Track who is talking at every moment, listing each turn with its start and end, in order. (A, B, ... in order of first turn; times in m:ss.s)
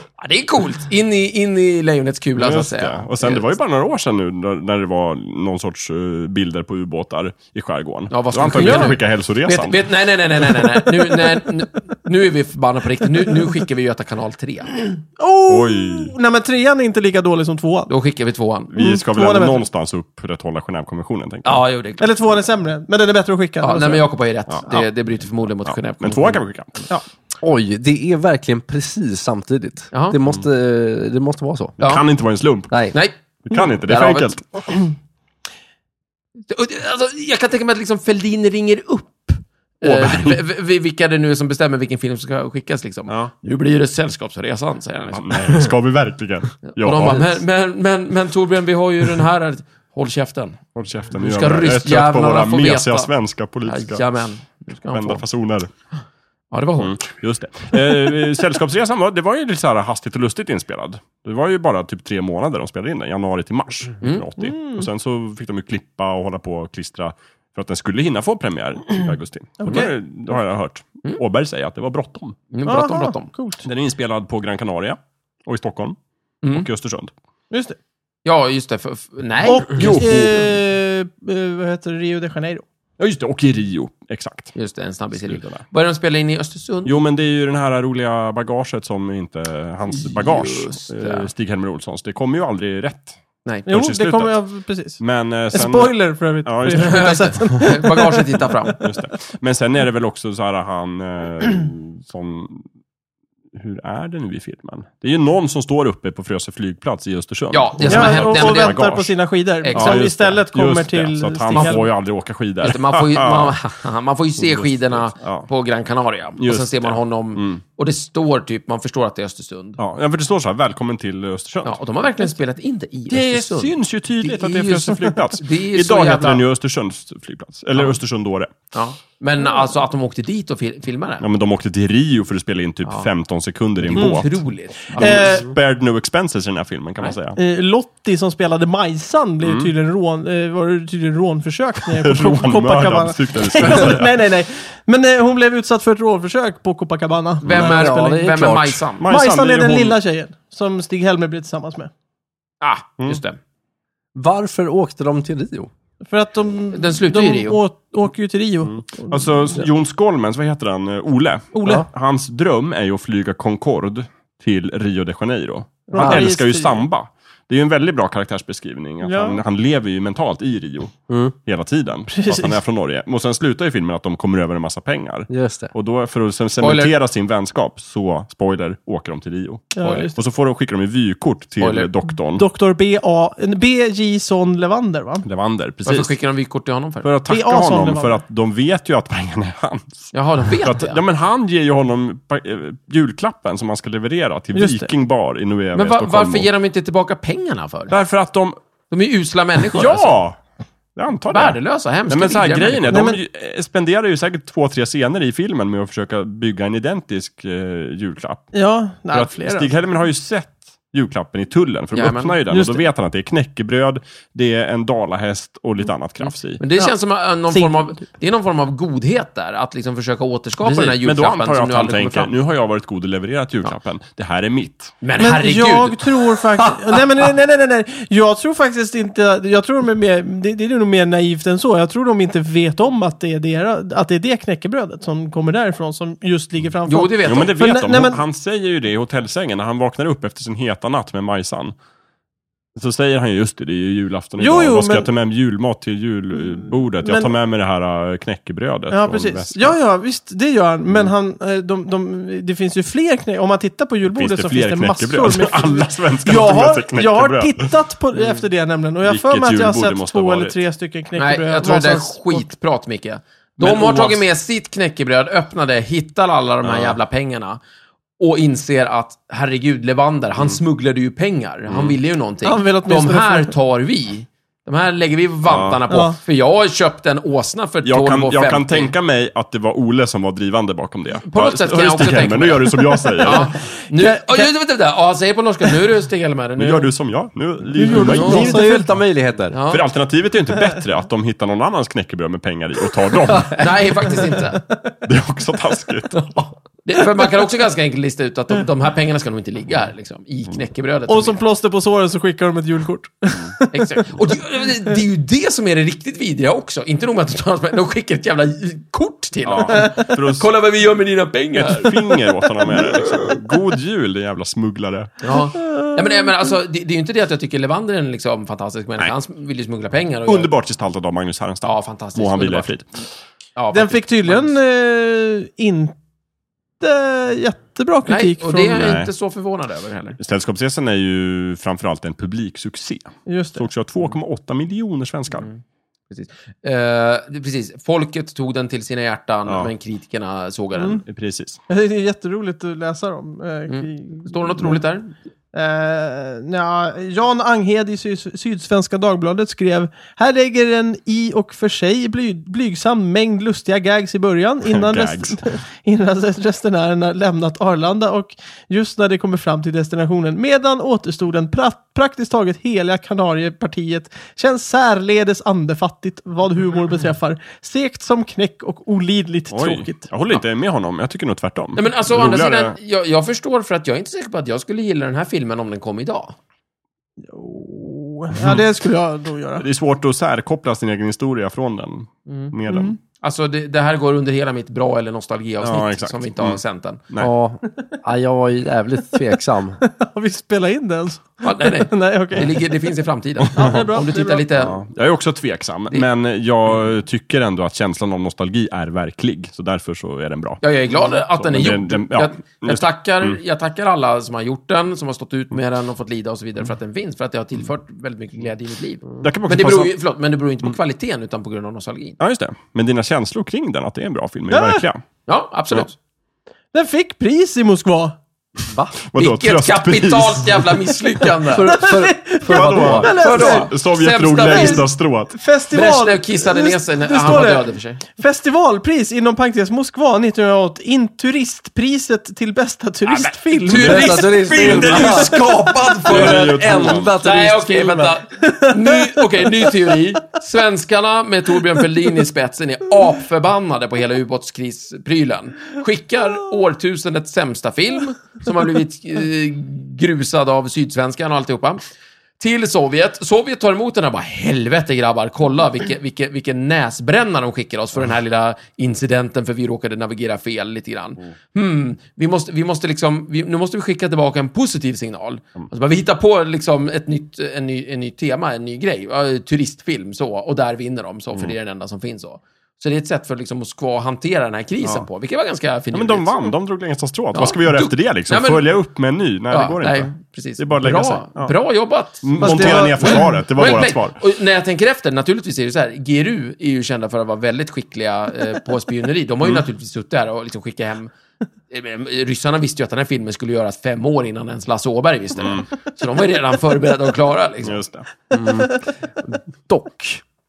0:00.2-0:03.5 A
0:02.4-0:09.8 B
0:08.1-0:14.7 A
0:08.6-0:08.9 C
0:14.9-0:17.9 C
0:15.5-0:16.1 B
0:17.9-0:18.7 A
0:18.7-0:21.6 B
0:18.8-0:19.6 C
0:21.4-0:22.2 A
0:22.0-0:24.1 C
0:23.6-0:26.4 A
0:25.7-0:26.8 B
0:27.4-0:31.8 D
0:29.9-0:30.2 A
0:31.8-0:32.8 B
0:33.4-0:34.4 B
0:33.7-0:34.3 A
0:36.5-0:45.6 A
0:39.8-0:40.4 B
0:43.1-0:43.3 B
0:45.1-0:47.4 B
0:46.6-0:50.6 A
0:50.8-0:54.0 B
0:51.2-0:53.1 A
0:53.6-0:55.2 A
0:54.9-0:55.7 B
0:56.5-0:57.0 A
0:56.8-1:12.4 B
1:04.0-1:04.3 A
1:04.4-1:04.9 C
1:09.6-1:09.9 C
1:12.5-1:13.3 A
1:12.6-1:13.6 C
1:13.6-1:16.0 B
1:16.5-1:17.1 B
1:17.5-1:17.8 C
1:18.2-1:20.3 A
1:19.4-1:22.6 C
1:19.8-1:20.5 B
1:23.0-1:24.5 B
1:24.6-1:27.0 A
1:25.1-1:25.6 B
1:26.8-1:34.4 B
1:29.9-1:31.3 A
1:33.7-1:35.0 C
1:35.0-1:37.6 B
1:35.5-1:38.8 C
1:36.7-1:38.8 A
1:38.8-1:42.6 B
1:43.6-1:49.1 B
1:47.5-1:48.9 A
1:47.8-1:51.8 C
1:49.6-1:50.1 A
1:49.7-1:53.6 B
1:51.5-1:51.9 A
1:52.6-1:59.8 A
1:54.4-1:55.5 B
1:56.4-1:57.6 B
1:59.8-2:01.8 B
2:01.6-2:06.4 A
2:03.1-2:08.5 B
2:08.7-2:11.2 A
2:11.2-2:14.4 B
2:13.8-2:15.4 A
2:14.9-2:15.5 C
2:15.0-2:17.4 B
2:17.4-2:28.3 C
2:19.4-2:19.7 B
2:21.8-2:24.2 B
2:27.4-2:29.1 A
2:27.5-2:28.8 D
2:29.0-2:30.0 B
2:29.1-2:31.9 C
2:32.6-2:33.4 A
2:34.2-2:35.7 D
2:36.1-2:39.6 C
2:36.7-2:37.6 A
2:38.6-3:02.4 B
2:41.6-2:41.8 C
2:45.9-2:46.8 C
2:46.0-2:46.2 D
2:49.0-2:49.4 C
2:51.1-2:51.3 D
2:52.1-2:52.6 C
2:55.3-2:55.7 D
2:56.6-2:56.9 A
2:59.8-3:00.2 C
2:59.8-3:00.1 A
3:01.6-3:01.9 A
3:02.4-3:05.3 C
3:05.2-3:06.1 B
3:05.8-3:07.1 A
3:07.0-3:16.5 B
3:07.3-3:08.2 C
3:10.1-3:11.0 A
3:14.6-3:14.9 C
3:15.8-3:17.9 A
3:17.9-3:18.6 B
3:18.9-3:20.1 A
3:19.7-3:20.4 B
3:21.0-3:21.6 B
3:21.3-3:23.0 A
3:22.1-3:28.5 B
3:22.9-3:23.2 C
3:28.5-3:29.7 C
3:29.1-3:36.6 B
3:31.9-3:32.4 A
3:32.5-3:32.8 C
3:36.2-3:42.3 A
3:37.5-3:37.8 C
3:40.6-3:45.0 B
3:45.0-3:47.3 A
3:45.2-3:58.2 C
3:56.9-3:57.5 A
3:57.2-4:01.8 B
4:02.8-4:09.8 B
4:04.4-4:05.1 C
4:07.0-4:07.3 C
4:08.9-4:22.5 C
4:14.1-4:17.7 B
4:19.0-4:20.6 B
4:21.2-4:27.6 A
4:23.6-4:24.2 B
4:26.6-4:27.0 B
4:28.2-4:38.9 A
4:31.7-4:32.0 B
4:32.4-4:33.5 C
4:35.5-4:35.8 B
4:35.9-4:36.2 C
4:37.8-4:43.5 B
4:41.3-4:46.9 A
4:44.0-4:44.5 C
4:46.6-4:48.6 B
4:47.8-4:48.9 C
4:47.8-4:49.6 D
4:48.2-4:48.5 A
4:49.5-4:49.8 A
4:49.7-4:53.7 B
4:53.5-4:54.6 A
4:55.0-4:56.4 B
4:56.8-5:01.4 A
5:01.1-5:04.0 C
5:03.7-5:12.0 A
5:09.5-5:10.5 B
5:09.7-5:10.0 C
5:11.6-5:15.3 B
5:12.7-5:13.3 C
5:15.2-5:20.5 A
5:15.3-5:16.3 C
5:20.3-5:22.9 B
5:21.6-5:22.7 A
5:23.6-5:24.6 A
5:23.7-5:26.0 C
5:26.8-5:28.9 C
5:28.1-5:30.2 A
5:28.7-5:29.1 B
5:30.2-5:35.5 B
5:33.3-5:33.6 C
5:35.3-5:41.0 A
5:40.8-5:41.0 C
5:41.1-5:41.6 B
5:41.7-5:44.8 C
5:43.7-5:45.1 A
5:45.5-6:10.1 C
5:54.6-5:55.4 B
6:09.5-6:12.8 B
6:11.8-6:16.4 A
6:17.3-6:19.6 C
6:18.3-6:18.6 B
6:19.6-6:23.0 B
6:22.3-6:22.5 A
6:22.7-6:23.0 C
6:23.2-6:27.0 A
6:25.6-6:27.3 B
6:27.2-6:29.8 D
6:29.8-6:32.6 C
6:31.4-6:34.8 A
6:33.5-6:33.8 B
6:33.6-6:34.6 C
6:34.6-6:43.4 B
6:40.6-6:52.2 A
6:49.2-6:49.9 B
6:52.2-6:55.0 B
6:54.5-6:54.8 C
6:55.3-6:56.0 A
6:56.7-6:58.2 C
6:59.1-7:00.9 B
6:59.2-7:01.7 A
7:01.5-7:03.2 D
7:01.6-7:03.7 C
7:02.5-7:05.4 B
7:03.0-7:04.9 A
7:04.4-7:15.1 C
7:05.7-7:08.0 A
7:13.0-7:31.8 A
7:13.7-7:18.2 D
7:14.6-7:15.2 B
7:16.1-7:17.1 B
7:18.4-7:19.7 C
7:32.4-7:56.4 A
7:55.9-8:01.5 B
7:57.3-7:58.7 A
7:59.5-8:11.1 A
8:02.2-8:04.2 B
8:02.4-8:03.4 C
8:11.7-8:17.8 A
8:15.4-8:15.7 B
8:17.6-8:18.1 B
8:18.3-8:20.2 D